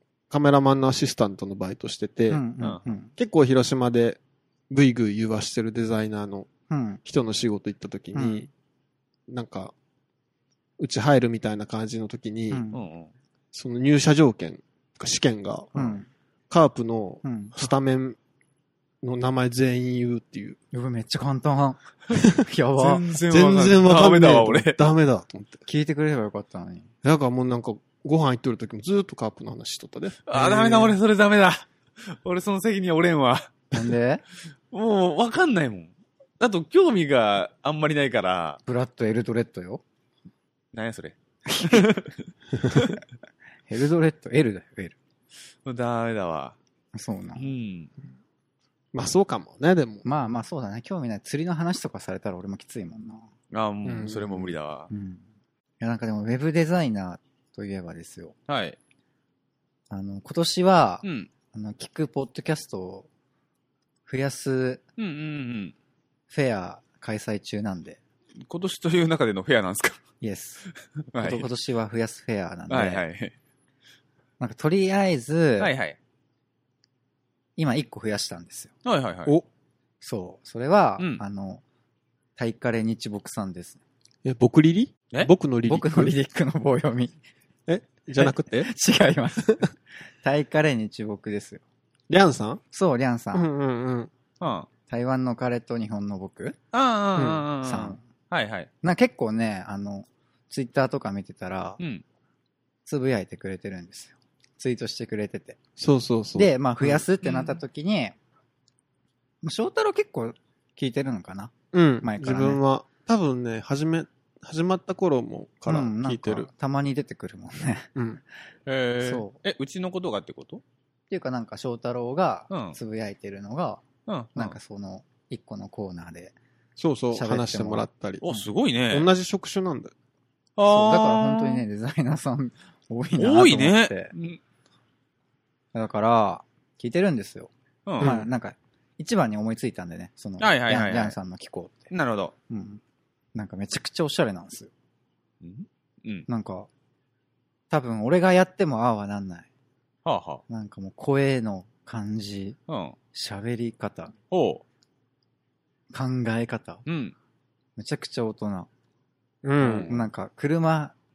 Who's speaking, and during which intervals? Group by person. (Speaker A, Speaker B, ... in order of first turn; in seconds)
Speaker A: 0.3-2.4, 3.2-6.5, 7.0-8.5, 9.3-9.7, 10.8-12.6, 13.5-15.8, 16.5-18.2, 19.0-20.6, 23.3-25.6, 27.0-31.0, 48.9-50.0, 53.9-54.5, 84.2-86.1, 87.7-88.7, 92.1-92.6, 93.3-94.1, 97.2-97.5, 105.8-107.0, 111.7-116.5, 118.0-118.2, 126.8-128.2, 128.9-129.9, 138.0-138.3, 159.4-159.9
Speaker B: 2.3-3.1, 6.7-7.0, 8.2-8.4, 12.5-12.8, 15.8-16.1, 17.2-17.6, 20.7-23.1, 25.7-26.9, 33.7-34.2, 38.7-39.8, 41.5-41.9, 43.7-45.0, 46.9-47.5, 50.0-53.3, 54.9-55.2, 55.8-58.4, 59.9-63.1, 64.1-64.8, 66.3-68.0, 70.2-70.7, 71.2-73.0, 74.4-75.7, 77.6-78.7, 80.0-81.6, 82.4-83.8, 85.7-87.2, 88.2-89.7, 90.2-91.6, 92.7-93.5, 94.9-96.6, 97.6-98.0, 98.8-101.8, 102.9-105.6, 106.4-108.2, 109.4-112.6, 115.7-117.9, 119.0-119.4, 121.1-123.8, 124.4-126.3, 127.1-128.5, 130.7-134.1, 135.7-141.9, 142.5-142.8, 143.3-144.7, 146.3-146.7, 147.7-149.5, 150.5-152.6, 153.1-154.1, 155.9-156.8, 157.8-158.7, 159.9-160.9
Speaker C: 12.7-13.1, 22.8-24.8, 30.3-33.8, 34.7-38.6, 40.7-42.1, 42.7-43.0, 45.6-46.6, 47.4-47.9, 53.5-54.9, 58.5-58.8, 61.0-61.3, 65.0-65.7, 68.5-70.0, 71.1-71.5, 72.7-73.3, 75.6-76.0, 78.8-79.4, 94.4-94.7, 96.7-98.7, 107.2-107.6, 118.7-120.6, 122.5-122.8, 124.1-124.6, 128.2-129.1, 130.6-131.6, 133.2-134.4, 137.9-138.2, 140.4-141.2, 141.9-142.3, 145.4-146.3, 150.1-150.4, 152.7-153.0, 154.3-154.6, 156.9-157.1, 159.6-160.0